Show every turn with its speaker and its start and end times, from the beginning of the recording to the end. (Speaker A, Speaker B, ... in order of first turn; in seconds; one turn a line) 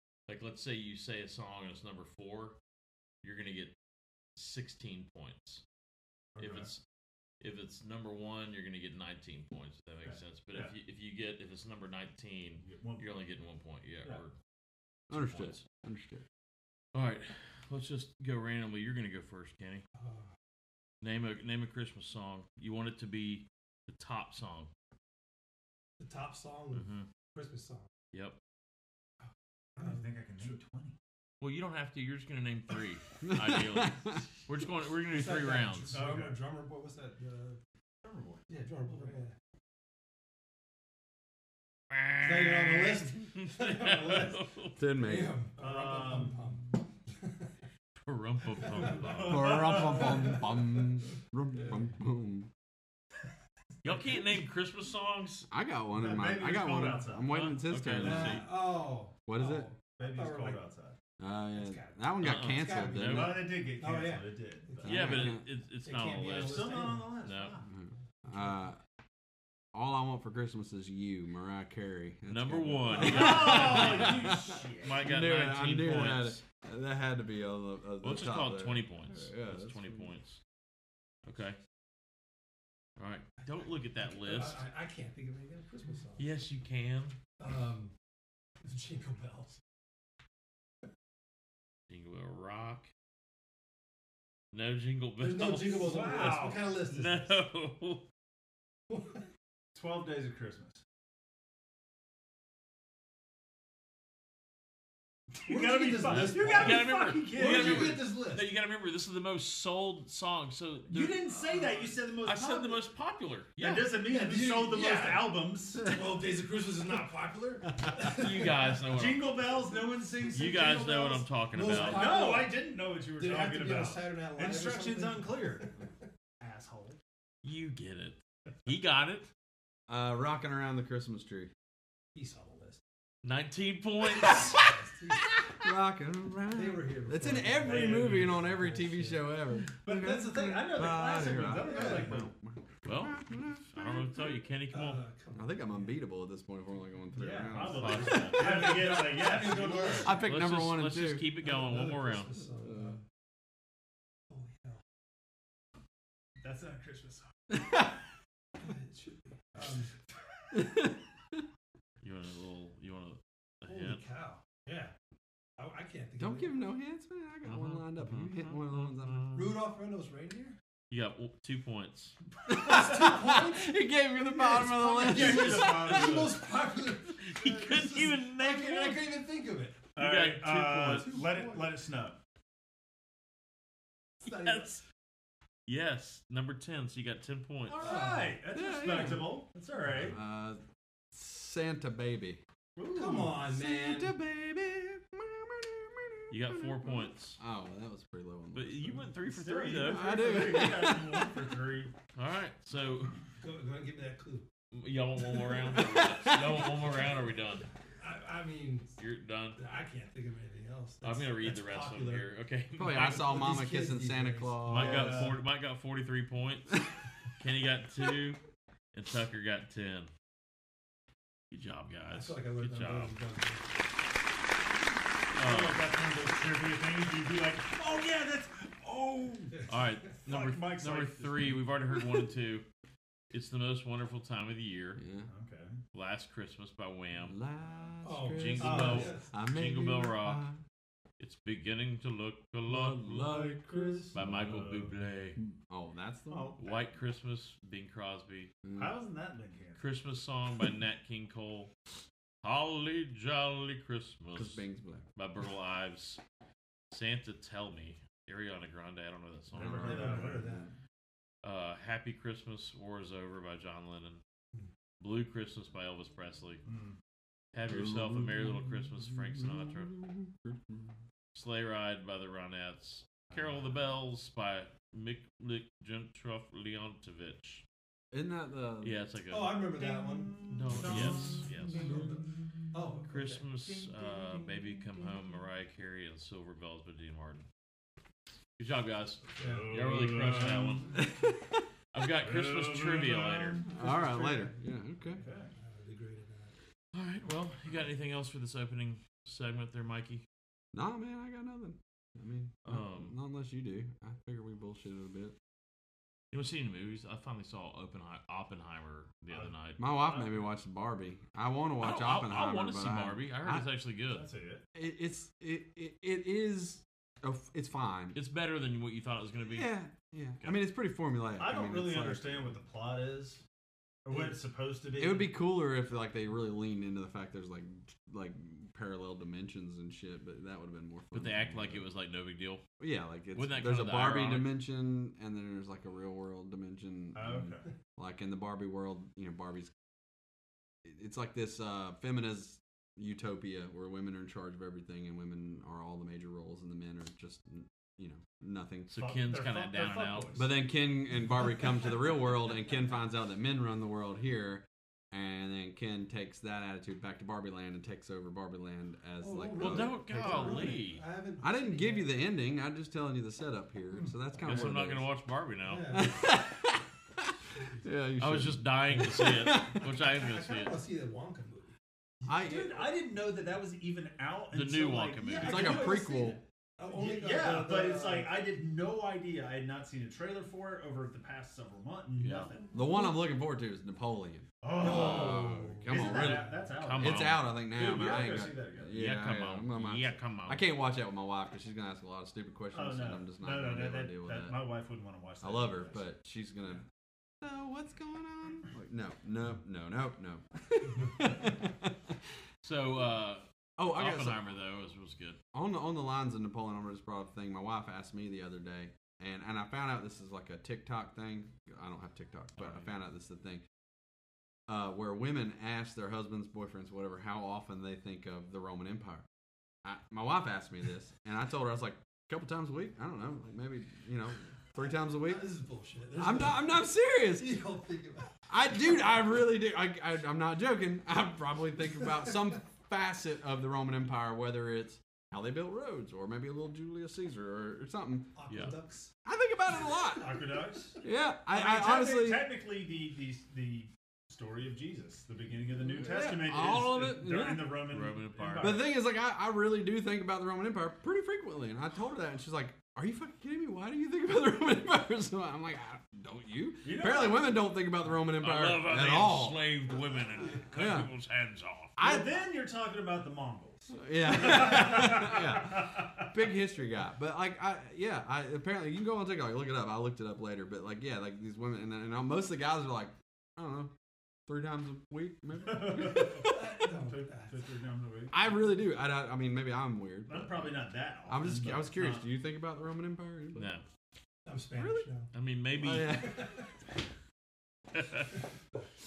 Speaker A: 0.3-2.6
Speaker A: 3.2-3.7
Speaker A: 4.4-5.6
Speaker B: 6.4-6.7
Speaker A: 6.4-6.8
Speaker A: 7.4-14.3
Speaker B: 10.0-10.7
Speaker B: 12.6-13.1
Speaker A: 15.1-15.6
Speaker C: 15.1-16.2
Speaker A: 16.9-19.8
Speaker D: 20.0-20.3
Speaker A: 21.0-24.7
Speaker D: 26.0-27.9
Speaker A: 26.7-27.1
Speaker D: 29.2-30.6
Speaker B: 29.8-31.0
Speaker A: 31.4-36.0
Speaker C: 33.2-34.1
Speaker D: 35.1-37.6
Speaker B: 35.9-36.4
Speaker B: 38.0-39.1
Speaker D: 38.5-39.4
Speaker A: 41.9-44.8
Speaker D: 42.2-44.4
Speaker C: 44.8-45.4
Speaker D: 45.0-47.5
Speaker B: 45.6-46.5
Speaker A: 48.0-49.8
Speaker B: 48.8-50.4
Speaker C: 49.3-52.5
Speaker D: 50.0-50.5
Speaker A: 53.8-55.5
Speaker C: 55.5-58.5
Speaker B: 55.9-57.4
Speaker A: 57.3-58.5
Speaker D: 58.0-60.6
Speaker C: 59.3-59.7
Speaker B: 60.0-61.0
Speaker C: 61.2-63.4
Speaker D: 61.6-67.1
Speaker A: 62.2-63.4
Speaker B: 63.1-65.1
Speaker C: 64.9-65.4
Speaker A: 64.9-67.5
Speaker B: 66.3-67.7
Speaker C: 67.7-68.8
Speaker C: 69.7-80.1
Speaker A: 72.3-76.4
Speaker B: 73.0-75.0
Speaker A: 78.0-80.4
Speaker A: 81.3-81.6
Speaker A: 83.0-84.6
Speaker D: 84.0-86.3
Speaker A: 86.2-87.2
Speaker D: 87.4-87.9
Speaker D: 88.6-89.6
Speaker A: 91.9-92.9
Speaker A: 94.5-95.9
Speaker D: 95.2-97.4
Speaker B: 95.7-96.7
Speaker A: 96.9-98.0
Speaker B: 99.8-100.8
Speaker B: 105.5-108.0
Speaker D: 105.5-108.5
Speaker A: 106.1-111.2
Speaker B: 110.9-112.8
Speaker D: 111.5-111.8
Speaker A: 112.2-113.9
Speaker B: 113.6-115.9
Speaker D: 114.0-118.3
Speaker A: 118.0-119.7
Speaker B: 118.9-125.7
Speaker A: 120.3-122.3
Speaker D: 121.5-122.6
Speaker D: 123.2-125.7
Speaker B: 126.4-127.0
Speaker A: 127.4-129.3
Speaker C: 129.9-131.5
Speaker D: 132.2-132.8
Speaker A: 133.2-134.6
Speaker D: 134.6-135.2
Speaker C: 135.6-143.9
Speaker D: 136.5-139.3
Speaker B: 137.6-138.4
Speaker B: 139.8-142.3
Speaker D: 140.0-140.3
Speaker D: 141.6-142.1
Speaker A: 142.8-145.0
Speaker D: 144.7-146.0
Speaker C: 145.3-148.3
Speaker B: 147.2-150.2
Speaker A: 147.7-148.8
Speaker D: 148.4-150.2
Speaker C: 150.0-151.3
Speaker A: 150.2-152.3
Speaker D: 151.4-153.0
Speaker C: 152.6-153.0
Speaker D: 154.3-154.8
Speaker B: 156.4-157.3
Speaker D: 158.6-159.9
Speaker A: 162.0-164.0
Speaker D: 163.7-164.9
Speaker D: 165.6-166.6
Speaker C: 166.2-169.3
Speaker A: 167.4-169.5
Speaker D: 169.3-170.6
Speaker A: 170.9-172.2
Speaker C: 172.5-176.2
Speaker D: 172.5-179.8
Speaker B: 175.0-176.4
Speaker A: 177.2-179.0
Speaker B: 180.0-182.2
Speaker A: 180.0-181.2
Speaker D: 180.8-181.7
Speaker D: 184.2-184.8
Speaker A: 184.3-184.8
Speaker A: 185.7-187.8
Speaker B: 187.7-190.2
Speaker D: 187.8-188.4
Speaker C: 188.5-189.3
Speaker C: 190.0-190.6
Speaker C: 191.1-192.4
Speaker B: 192.8-193.5
Speaker D: 192.9-194.2
Speaker C: 193.4-199.1
Speaker A: 196.3-197.4
Speaker A: 198.5-200.6
Speaker B: 199.3-201.9
Speaker C: 199.8-201.3
Speaker A: 202.2-203.2
Speaker D: 203.4-204.4
Speaker A: 204.7-207.7
Speaker C: 205.8-206.6
Speaker D: 208.0-208.9
Speaker A: 209.0-209.6
Speaker D: 209.6-212.3
Speaker A: 211.0-213.4
Speaker C: 212.8-215.3
Speaker D: 213.0-214.9
Speaker A: 214.7-216.8
Speaker B: 214.8-215.4
Speaker A: 217.4-218.4
Speaker A: 218.9-220.1
Speaker A: 221.5-223.2
Speaker D: 222.1-223.6
Speaker A: 225.4-225.8
Speaker B: 225.4-231.6
Speaker A: 229.7-232.7
Speaker A: 233.3-235.0
Speaker C: 235.0-235.3
Speaker B: 235.3-235.8
Speaker A: 235.9-237.4
Speaker C: 237.3-240.6
Speaker D: 238.0-239.3
Speaker A: 238.2-240.5
Speaker B: 238.6-239.1
Speaker A: 241.2-243.4
Speaker C: 242.7-244.2
Speaker B: 243.2-244.9
Speaker A: 244.1-245.4
Speaker C: 245.7-246.6
Speaker B: 246.3-246.7
Speaker A: 246.6-248.5
Speaker C: 248.6-248.9
Speaker B: 248.8-249.8
Speaker A: 249.8-251.7
Speaker A: 252.4-254.6
Speaker C: 254.3-255.1
Speaker A: 255.2-256.2
Speaker A: 256.9-260.3
Speaker B: 259.5-260.5
Speaker C: 259.6-260.6
Speaker D: 259.9-260.7
Speaker A: 261.4-264.2
Speaker A: 265.0-266.6
Speaker B: 266.7-267.0
Speaker A: 267.5-269.9
Speaker C: 267.7-270.9
Speaker A: 271.4-277.6
Speaker B: 273.3-273.7
Speaker C: 278.1-279.0
Speaker A: 278.8-279.8
Speaker D: 279.3-281.2
Speaker B: 280.3-282.1
Speaker A: 280.4-282.1
Speaker D: 282.7-283.4
Speaker A: 283.1-287.5
Speaker A: 288.6-291.0
Speaker B: 289.4-291.1
Speaker D: 289.4-289.6
Speaker A: 291.9-293.6
Speaker B: 292.2-293.7
Speaker C: 293.7-295.2
Speaker D: 293.8-296.5
Speaker B: 295.2-295.5
Speaker A: 296.9-300.2
Speaker C: 300.7-305.4
Speaker A: 302.6-303.2
Speaker A: 306.3-309.8
Speaker B: 309.3-310.5
Speaker C: 309.8-313.7
Speaker A: 311.8-314.3
Speaker B: 314.1-314.6
Speaker C: 314.8-318.2
Speaker A: 318.1-319.8
Speaker C: 319.5-322.6
Speaker B: 321.4-323.4
Speaker B: 324.1-325.4
Speaker C: 325.0-331.9
Speaker A: 331.1-332.6
Speaker C: 332.8-339.7
Speaker A: 333.3-334.6
Speaker B: 337.1-337.7
Speaker C: 340.8-348.9
Speaker A: 348.9-350.4
Speaker B: 349.0-350.5
Speaker C: 350.4-360.7
Speaker D: 359.2-362.2
Speaker A: 359.6-361.0
Speaker C: 361.4-365.1
Speaker A: 364.4-366.1
Speaker D: 365.7-366.3
Speaker C: 365.9-366.6
Speaker C: 367.8-369.8
Speaker A: 368.2-370.8
Speaker D: 370.0-371.7
Speaker C: 372.3-372.9
Speaker B: 372.4-376.0
Speaker A: 374.5-376.0
Speaker C: 375.4-376.4
Speaker D: 375.4-378.4
Speaker B: 376.9-382.7
Speaker A: 382.2-382.5
Speaker C: 382.7-386.4
Speaker B: 384.6-388.9
Speaker D: 384.8-386.6
Speaker A: 386.0-387.5
Speaker C: 387.0-394.6
Speaker A: 388.9-390.7
Speaker B: 392.7-396.1
Speaker C: 395.4-396.8
Speaker C: 397.4-401.9
Speaker A: 402.6-405.4
Speaker C: 403.8-404.5
Speaker C: 405.5-413.6
Speaker A: 412.6-412.9
Speaker C: 414.7-419.2
Speaker C: 419.8-425.5
Speaker D: 424.8-428.4
Speaker C: 426.2-427.6
Speaker C: 428.5-438.3
Speaker D: 438.4-439.1
Speaker A: 438.5-438.8
Speaker C: 439.3-440.3
Speaker B: 440.0-441.0
Speaker C: 441.0-442.5
Speaker B: 441.5-448.9
Speaker C: 445.8-447.8
Speaker A: 447.9-448.8
Speaker C: 448.6-459.6
Speaker B: 456.8-457.6
Speaker A: 458.4-462.0
Speaker C: 460.7-461.1
Speaker C: 462.0-462.3
Speaker B: 462.0-466.2
Speaker C: 463.9-473.9
Speaker C: 474.5-476.5
Speaker B: 475.6-478.5
Speaker D: 476.4-477.6
Speaker C: 478.3-480.8
Speaker B: 480.3-482.3
Speaker C: 481.3-483.8
Speaker A: 483.6-483.9
Speaker D: 484.5-485.3
Speaker C: 484.8-485.1
Speaker A: 485.3-486.3
Speaker C: 485.8-486.4
Speaker A: 488.0-488.2